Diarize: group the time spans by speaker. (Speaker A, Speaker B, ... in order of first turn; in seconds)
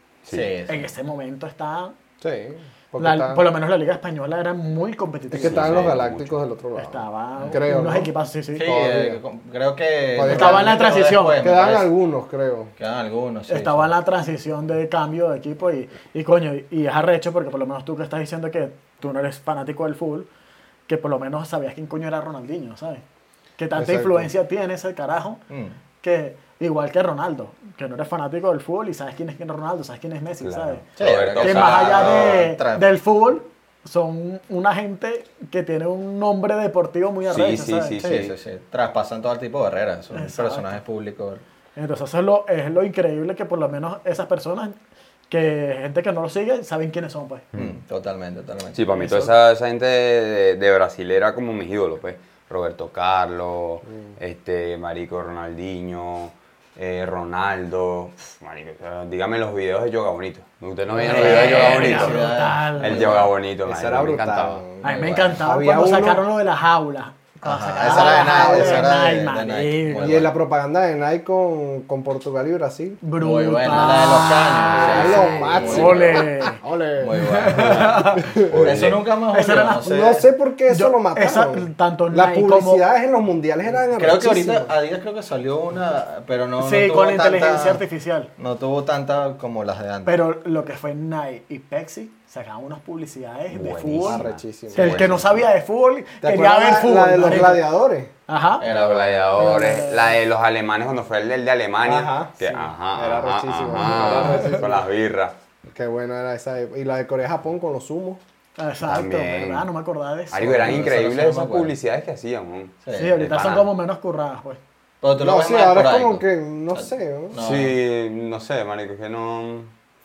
Speaker A: 0.2-0.5, 5.3-6.4, 30.4-32.4, 37.3-38.3, 48.7-64.6, 77.6-77.9, 78.5-79.0, 93.5-95.4, 98.6-105.3, 108.9-109.7, 110.3-113.7, 117.4-119.7
Speaker B: 0.3-0.8, 8.5-11.9, 12.8-13.9, 25.5-25.8, 31.0-32.8, 38.0-41.4, 47.6-48.8, 61.0-63.3, 64.8-65.4, 67.4-70.3, 73.2-76.3, 77.0-80.2, 83.9-87.8, 88.4-90.1, 98.6-99.8, 110.5-111.7, 112.8-113.2, 115.0-116.2, 116.7-117.7
Speaker C: 0.7-1.9, 3.0-5.9, 6.8-8.7, 10.2-11.5, 13.5-20.3, 20.9-23.0, 23.6-25.4, 26.0-30.9, 31.4-38.0, 40.1-40.8, 41.8-44.8, 45.3-47.5, 48.9-49.3, 61.0-63.2, 64.8-70.2, 73.0-76.6, 77.1-78.3, 79.3-82.8, 86.6-88.3, 90.0-97.7, 98.3-98.7, 99.3-100.1, 103.7-104.6, 108.6-110.8, 112.9-114.6
Speaker D: 2.2-3.4, 5.3-8.1, 8.7-9.2, 10.1-12.7, 23.8-24.3, 63.6-66.2, 67.8-69.0, 70.0-73.0, 73.7-77.6, 78.2-78.9, 79.8-84.7, 94.0-95.2, 96.2-98.1, 101.8-102.4, 102.9-104.8, 105.7-108.2, 115.2-117.3